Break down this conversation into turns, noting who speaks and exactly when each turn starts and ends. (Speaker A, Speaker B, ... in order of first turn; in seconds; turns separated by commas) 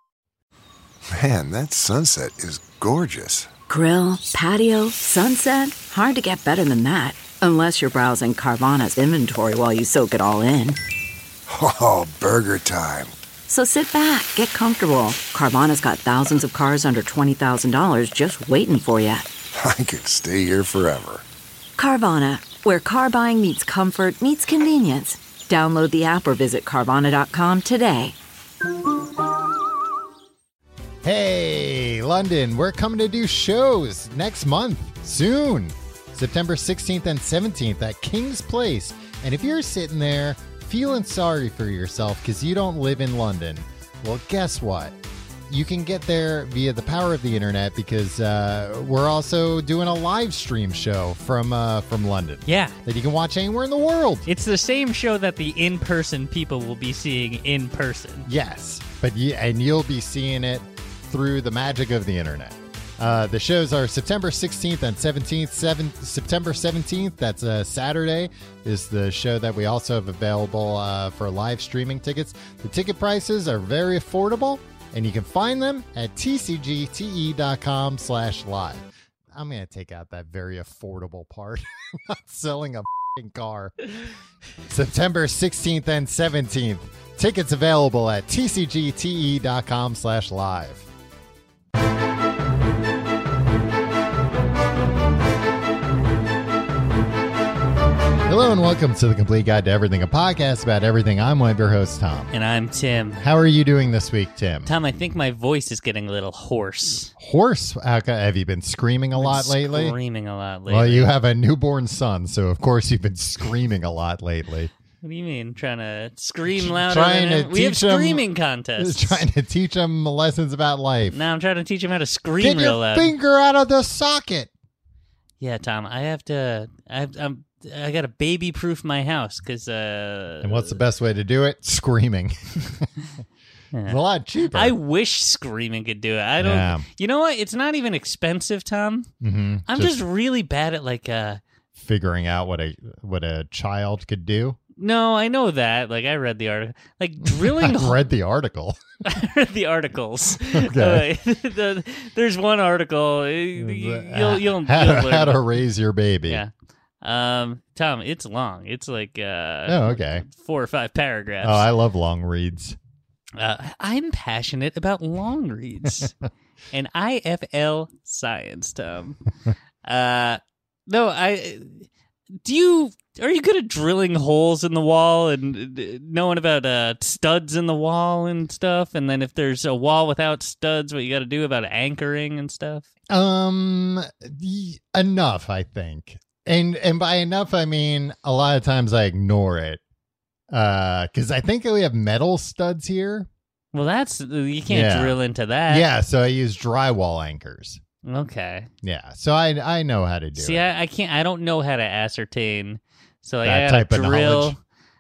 Speaker A: 1.1-3.5, Speaker B: 3.7-10.8, Speaker A: 11.5-13.1, Speaker B: 13.5-19.3, Speaker A: 19.5-21.2, Speaker B: 21.8-28.1, Speaker C: 31.0-45.0, Speaker C: 45.5-54.3, Speaker D: 52.5-52.8, Speaker D: 54.3-58.3, Speaker C: 58.3-83.9, Speaker C: 84.7-90.9, Speaker C: 98.3-102.3, Speaker D: 102.3-103.3, Speaker C: 103.2-104.7, Speaker D: 104.7-107.1, Speaker C: 107.2-110.0, Speaker D: 109.2-111.1, Speaker C: 110.7-114.7, Speaker D: 115.0-119.2, Speaker C: 116.5-118.3, Speaker C: 118.8-121.2, Speaker D: 121.1-123.1, Speaker C: 122.4-124.5, Speaker D: 125.4-130.8, Speaker C: 130.4-132.9, Speaker D: 133.7-139.1, Speaker C: 133.9-134.8, Speaker C: 136.4-136.9, Speaker C: 139.2-140.0, Speaker D: 139.7-141.4, Speaker C: 141.8-144.6, Speaker D: 144.8-148.0, Speaker C: 147.2-148.8, Speaker D: 149.1-155.4, Speaker C: 150.4-151.1, Speaker C: 153.6-156.4, Speaker D: 157.0-161.7, Speaker C: 159.7-160.2, Speaker C: 161.4-162.8, Speaker D: 163.4-166.2, Speaker D: 166.7-169.2, Speaker D: 169.8-171.9, Speaker D: 172.4-182.9, Speaker C: 183.1-189.8, Speaker C: 190.5-193.3, Speaker D: 193.7-195.9, Speaker C: 194.7-195.2, Speaker C: 195.7-197.8, Speaker D: 198.0-198.7, Speaker C: 198.8-200.7, Speaker D: 200.3-204.6, Speaker C: 203.4-204.6